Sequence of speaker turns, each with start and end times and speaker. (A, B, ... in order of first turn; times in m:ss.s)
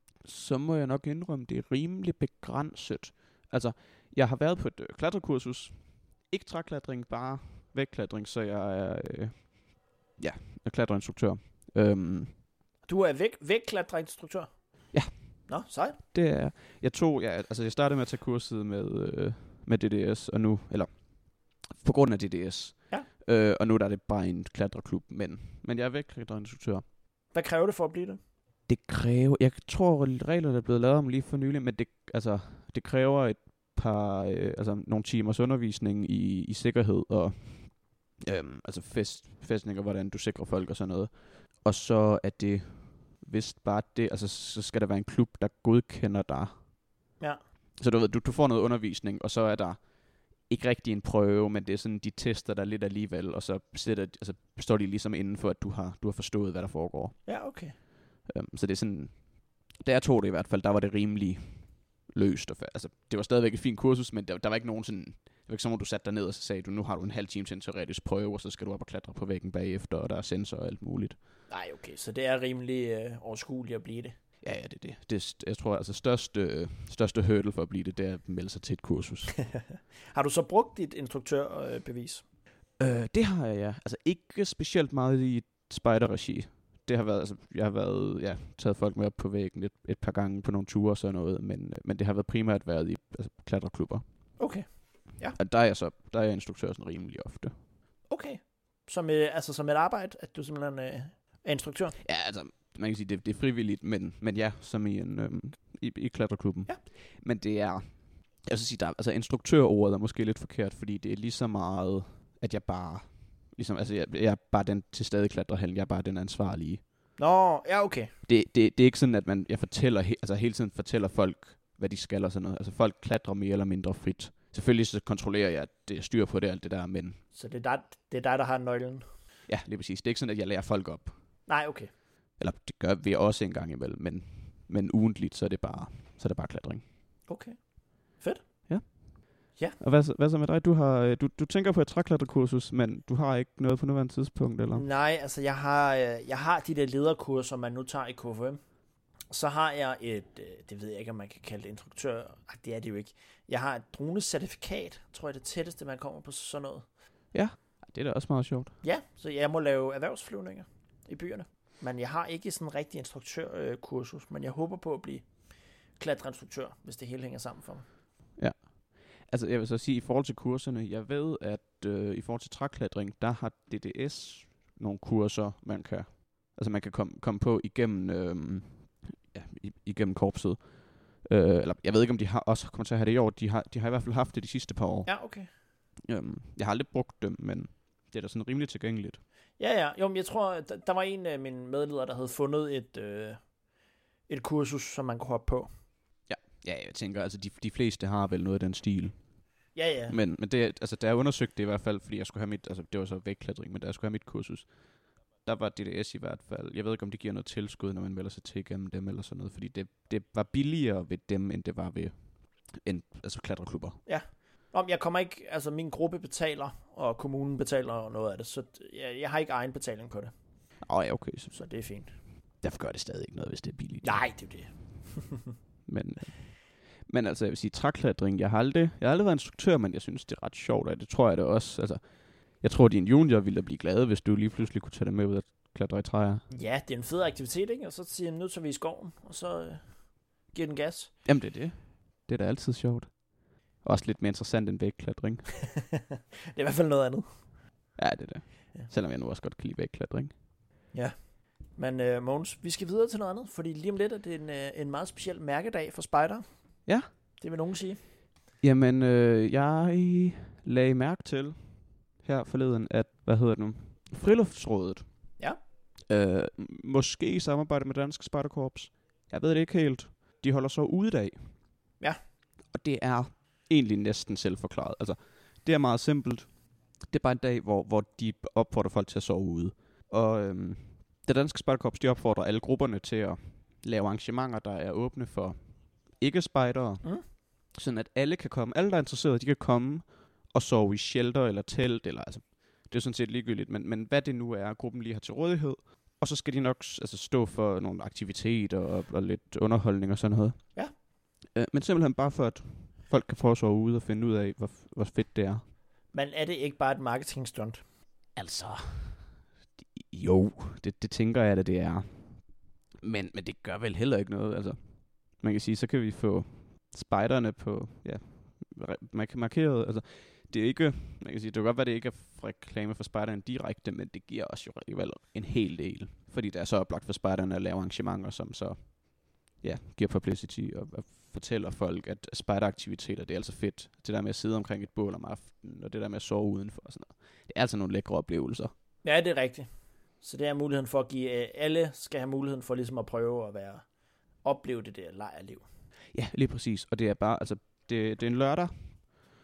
0:00.2-0:09.5 A
0:10.2-0:12.3 A
0:12.8-0:14.5 B
0:14.9-0:15.2 A
0:15.5-0:16.0 B
0:16.1-0:26.8 A
0:27.3-0:28.2 B
0:28.7-0:46.5 A
0:47.8-0:49.8 A
0:50.4-0:57.2 A
0:57.2-0:57.8 B
0:58.2-1:11.2 A
1:11.5-1:14.1 B
1:14.4-1:19.4 A
1:19.4-1:22.2 B
1:22.8-1:34.0 A
1:34.4-1:35.4 B
1:35.4-1:37.5 A
1:38.1-1:42.0 B
1:42.0-1:56.8 A
1:57.2-1:58.1 B
1:58.3-2:07.2 A
2:07.3-2:09.0 B
2:09.5-2:11.1 A
2:11.5-2:11.9 B
2:12.4-2:16.8 A
2:17.3-2:17.6 B
2:18.2-2:18.4 B
2:18.7-2:24.8 A
2:24.7-2:28.6 B
2:29.3-2:36.8 B
2:37.3-2:38.8 A
2:38.8-2:45.3 B
2:46.0-2:47.8 B
2:48.4-3:05.2 A
3:05.1-3:05.5 B
3:06.1-3:09.2 A
3:09.6-3:13.4 B
3:14.3-3:15.7 B
3:16.3-3:19.1 A
3:19.7-3:20.2 B
3:20.1-3:24.7 A
3:25.4-3:32.1 A
3:32.7-3:34.0 A
3:34.1-3:40.3 B
3:40.8-3:41.5 A
3:41.5-3:42.1 B
3:42.6-3:44.3 A
3:44.0-3:45.5 B
3:45.9-3:52.0 A
3:52.6-3:56.4 A
3:56.5-3:59.9 B
4:00.5-4:01.1 B
4:01.2-4:03.2 A
4:03.8-4:05.7 A
4:06.5-4:07.2 B
4:08.0-4:10.3 A
4:11.7-4:16.4 B
4:17.4-4:18.0 B
4:18.6-4:25.1 A
4:26.1-4:31.6 A
4:32.7-4:36.5 A
4:37.0-4:45.6 A
4:46.1-4:47.1 A
4:47.7-5:00.8 A
5:01.5-5:05.6 A
5:06.1-5:07.8 B
5:08.4-5:29.0 A
5:29.5-5:38.7 A
5:39.0-5:39.7 B
5:40.2-5:43.8 B
5:44.4-5:45.6 B
5:46.1-5:49.1 A